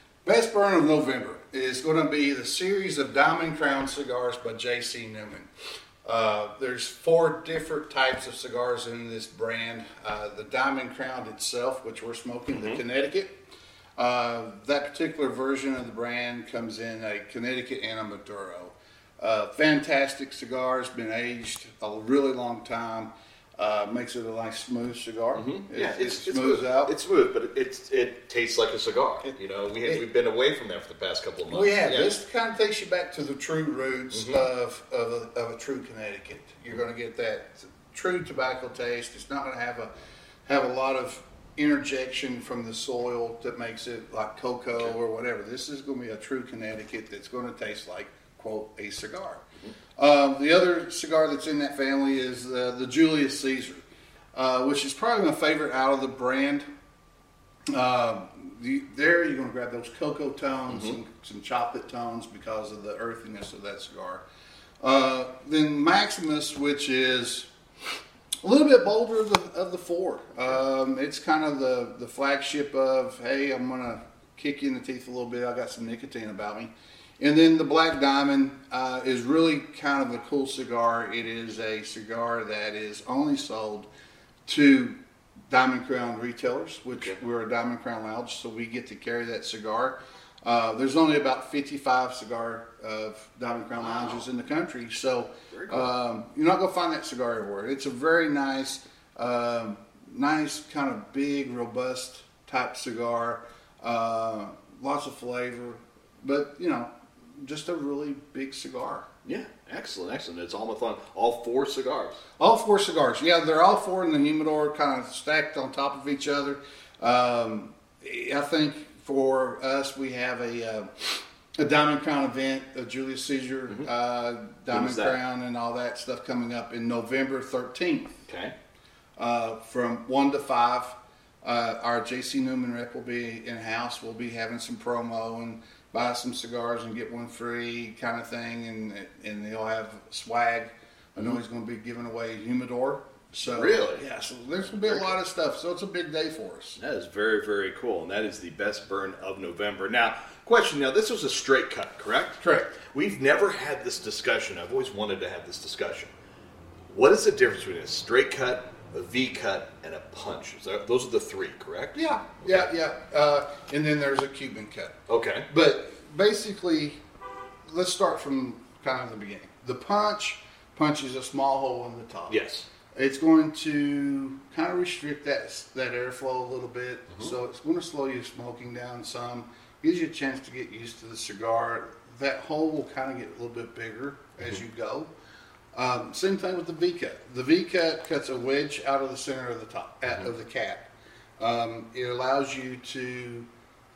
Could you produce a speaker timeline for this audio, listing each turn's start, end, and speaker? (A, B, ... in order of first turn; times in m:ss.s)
0:00.2-0:05.5 A
0:06.0-0:13.4 A
0:12.5-0:12.8 B
0:14.0-0:26.9 A
0:25.3-0:32.1 B
0:29.2-0:30.0 A
0:31.5-0:39.9 A
0:34.1-0:34.4 B
0:40.4-0:49.4 A
0:50.0-0:56.6 A
0:57.7-1:04.2 A
1:00.7-1:01.0 B
1:04.8-1:07.5 A
1:08.4-1:23.9 A
1:24.5-1:25.0 A
1:25.5-1:49.1 A
1:35.5-1:35.9 B
1:49.2-1:52.2 B
1:52.4-2:08.2 A
2:04.7-2:05.2 B
2:08.3-2:08.5 B
2:09.2-2:26.8 A
2:23.4-2:24.0 B
2:24.8-2:25.1 B
2:26.8-2:36.1 B
2:32.4-2:32.8 A
2:36.9-2:42.7 B
2:41.9-2:45.0 A
2:45.1-2:45.5 B
2:45.5-2:47.0 A
2:47.6-2:52.4 A
2:52.3-2:52.7 B
2:52.9-3:05.1 A
3:05.7-3:10.9 A
3:11.4-3:13.5 A